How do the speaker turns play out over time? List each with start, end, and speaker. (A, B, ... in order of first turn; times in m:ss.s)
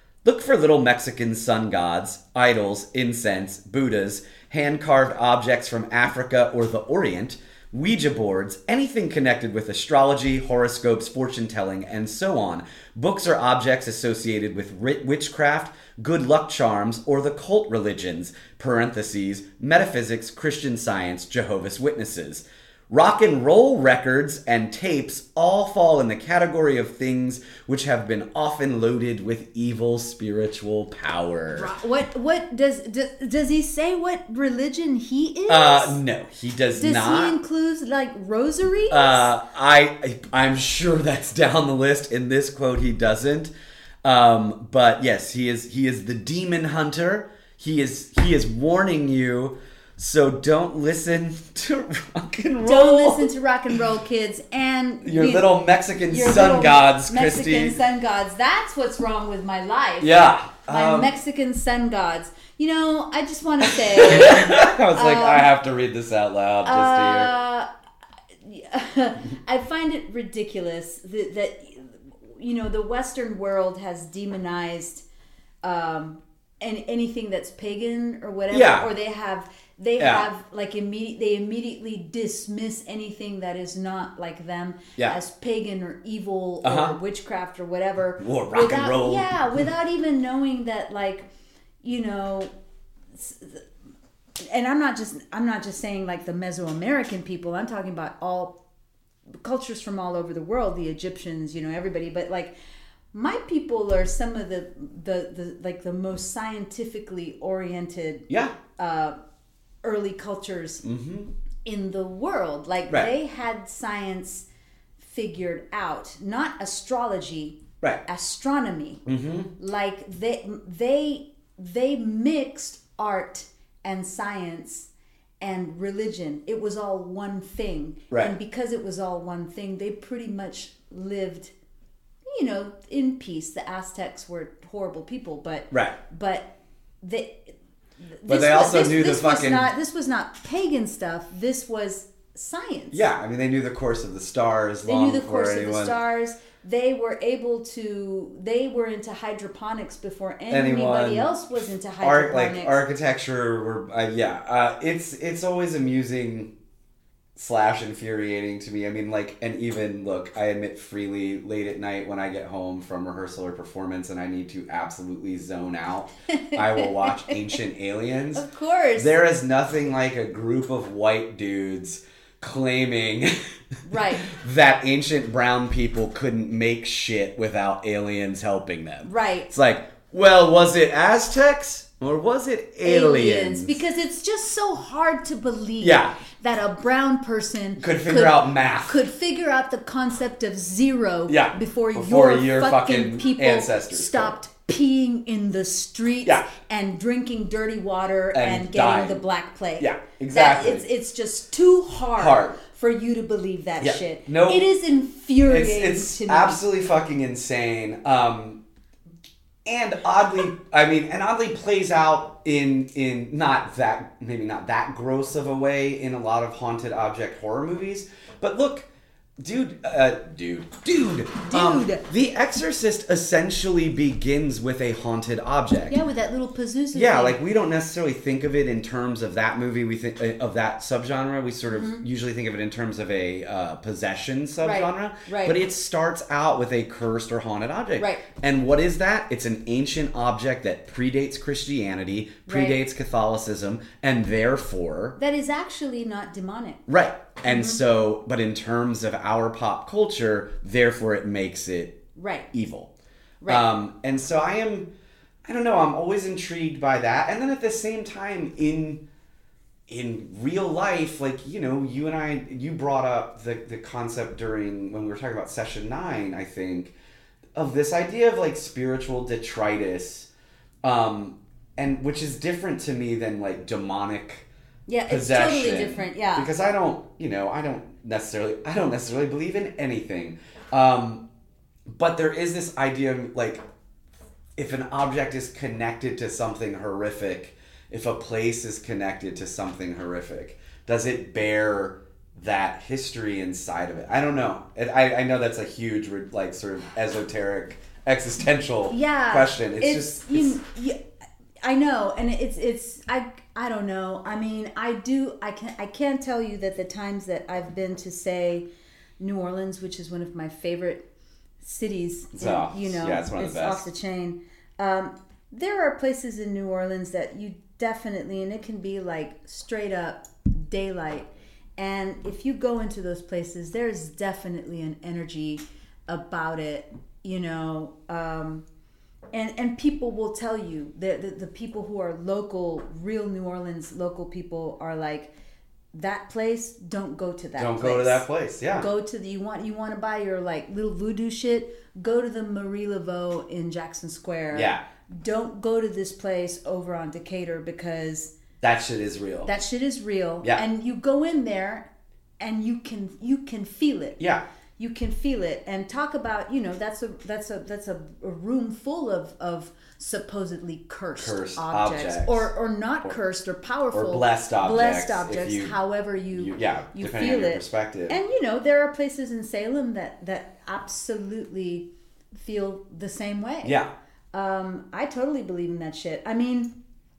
0:00.2-0:31.7 A
0:31.5-0:36.0 B
0:35.5-0:37.4 A
0:36.8-0:39.3 B
0:38.9-0:43.5 A
0:44.0-0:53.3 A
0:52.6-0:55.5 B
0:55.0-0:57.8 A
0:56.1-1:05.5 B
1:00.0-1:01.1 A
1:03.6-1:07.3 A
1:06.6-1:07.7 B
1:08.4-1:15.0 B
1:15.6-1:31.3 B
1:18.5-1:18.9 A
1:20.0-1:20.3 A
1:26.6-1:27.0 A
1:28.2-1:29.3 A
1:31.8-1:32.5 B
1:33.1-1:33.6 B
1:34.4-1:38.6 B
1:39.4-1:42.5 B
1:43.1-1:49.2 B
1:48.3-1:48.6 A
1:49.8-1:50.8 B
1:50.8-1:51.3 A
1:51.6-1:54.4 B
1:55.0-1:59.0 B
1:59.0-1:59.5 A
1:59.6-2:04.9 B
2:05.4-2:11.5 B
2:12.3-2:16.5 B
2:15.7-2:16.0 A
2:17.0-2:17.5 B
2:18.0-2:23.0 B
2:18.3-2:19.7 A
2:22.9-2:26.0 A
2:24.8-2:32.8 B
2:30.5-2:31.3 A
2:32.0-2:36.5 A
2:37.4-2:53.3 A
2:46.3-2:47.5 B
2:48.3-2:49.1 B
2:53.8-2:54.3 B
2:54.2-3:03.8 A
2:59.0-2:59.5 B
3:02.8-3:26.6 B
3:05.8-3:06.2 A
3:07.8-3:09.0 A
3:11.3-3:14.3 A
3:18.3-3:19.2 A
3:19.8-3:20.8 A
3:22.2-3:22.6 A
3:23.8-3:24.6 A
3:25.5-3:28.6 A
3:29.6-3:38.9 A
3:39.4-3:46.0 A
3:41.4-3:42.0 B
3:45.9-3:47.4 B
3:46.9-4:05.2 A
3:51.7-3:52.0 B
3:54.6-3:55.6 B
3:58.0-3:58.2 B
4:02.5-4:02.8 B
4:05.2-4:06.8 B
4:06.9-4:12.0 A
4:07.4-4:07.8 B
4:12.2-4:12.5 B
4:12.5-4:12.9 A
4:13.4-4:14.9 A
4:15.4-4:19.0 A
4:19.9-4:26.9 A
4:27.5-4:30.3 A
4:30.8-4:34.5 A
4:34.9-4:36.5 B
4:35.1-4:41.2 A
4:41.9-4:43.6 A
4:44.6-5:00.6 A
4:58.9-5:01.0 B
5:01.6-5:08.6 B
5:09.2-5:11.0 B
5:11.6-5:28.6 B
5:12.3-5:13.8 A
5:29.3-5:35.3 B
5:35.9-5:48.3 B
5:37.6-5:38.9 A
5:44.5-5:44.8 A
5:48.6-5:49.5 A
5:49.4-5:51.9 B
5:52.4-5:54.2 B
5:54.8-6:13.8 B
6:01.2-6:02.5 A
6:03.9-6:05.8 A
6:06.3-6:08.2 A
6:13.6-6:13.9 A
6:14.3-6:16.7 B